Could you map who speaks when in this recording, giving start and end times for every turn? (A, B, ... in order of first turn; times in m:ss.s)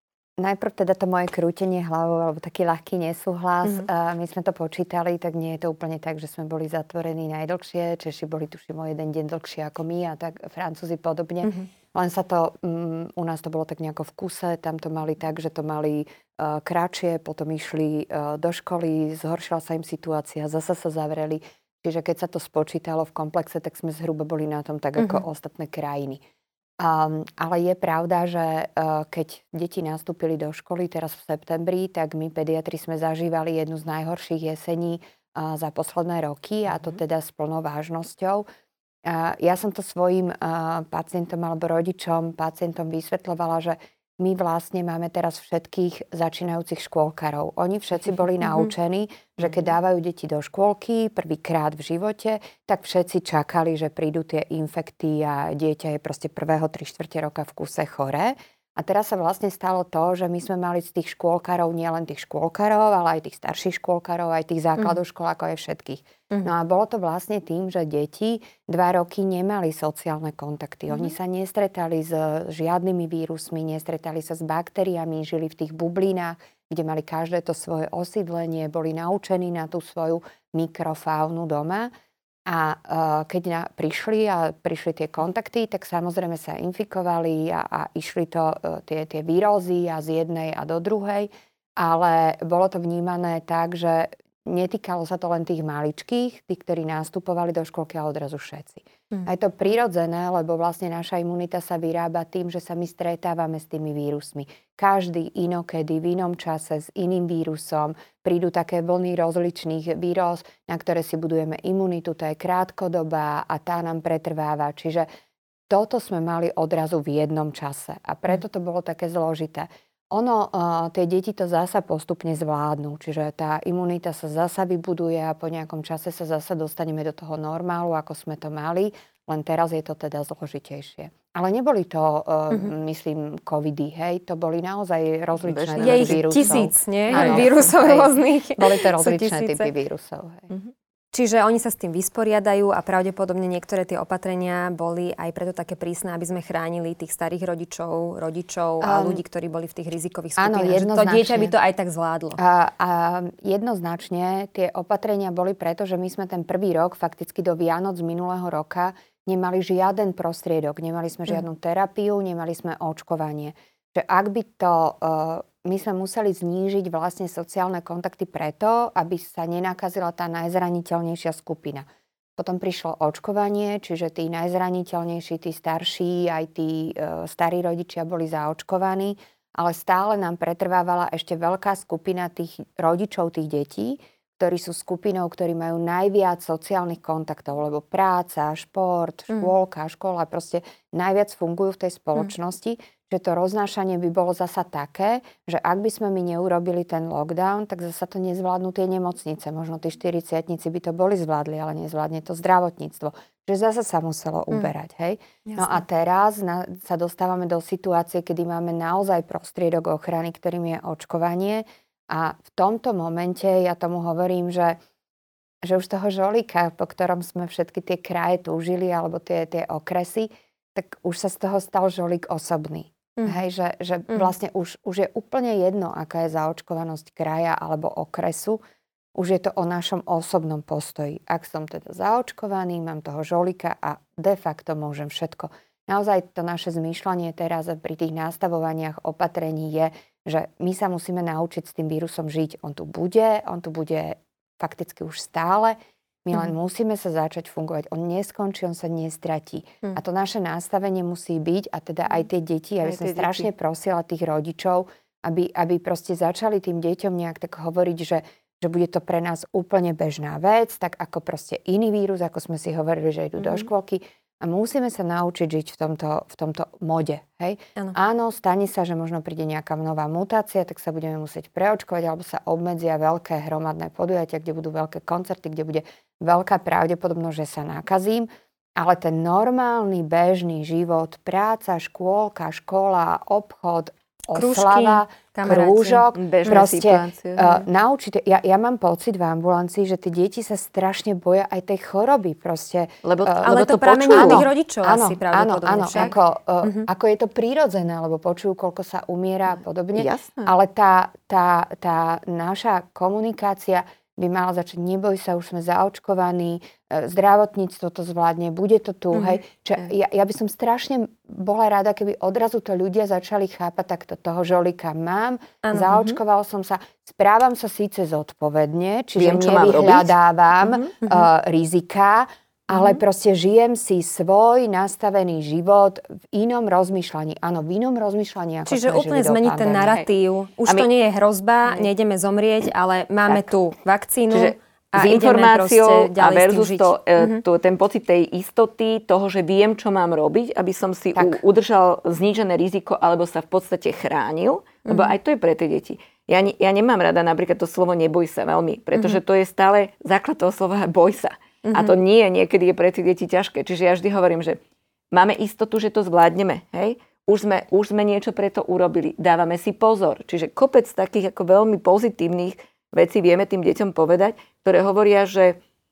0:00.4-0:26.2 A
0:11.4-0:11.7 B
0:26.8-0:38.4 A
0:39.0-1:21.9 A
1:22.5-1:55.0 A
1:55.7-2:20.5 A
2:15.4-2:17.5 C
2:15.8-2:19.7 B
2:21.1-2:32.4 B
2:28.8-2:29.2 A
2:30.4-2:31.5 A
2:32.4-2:51.8 A
2:52.4-3:34.8 A
3:25.5-3:25.8 B
3:35.6-3:48.6 A
3:49.1-5:29.9 A
4:12.8-4:13.5 C
4:44.3-4:46.6 B
4:46.1-4:47.5 C
4:53.0-4:54.4 C
4:53.4-4:56.9 B
4:59.9-5:00.5 C
5:15.6-5:16.2 B
5:19.2-5:20.1 C
5:21.0-5:21.3 B
5:28.7-5:37.4 B
5:34.3-5:54.6 C
5:41.2-5:41.4 A
5:44.9-5:45.2 B
5:51.6-5:51.9 B
5:55.1-6:05.6 C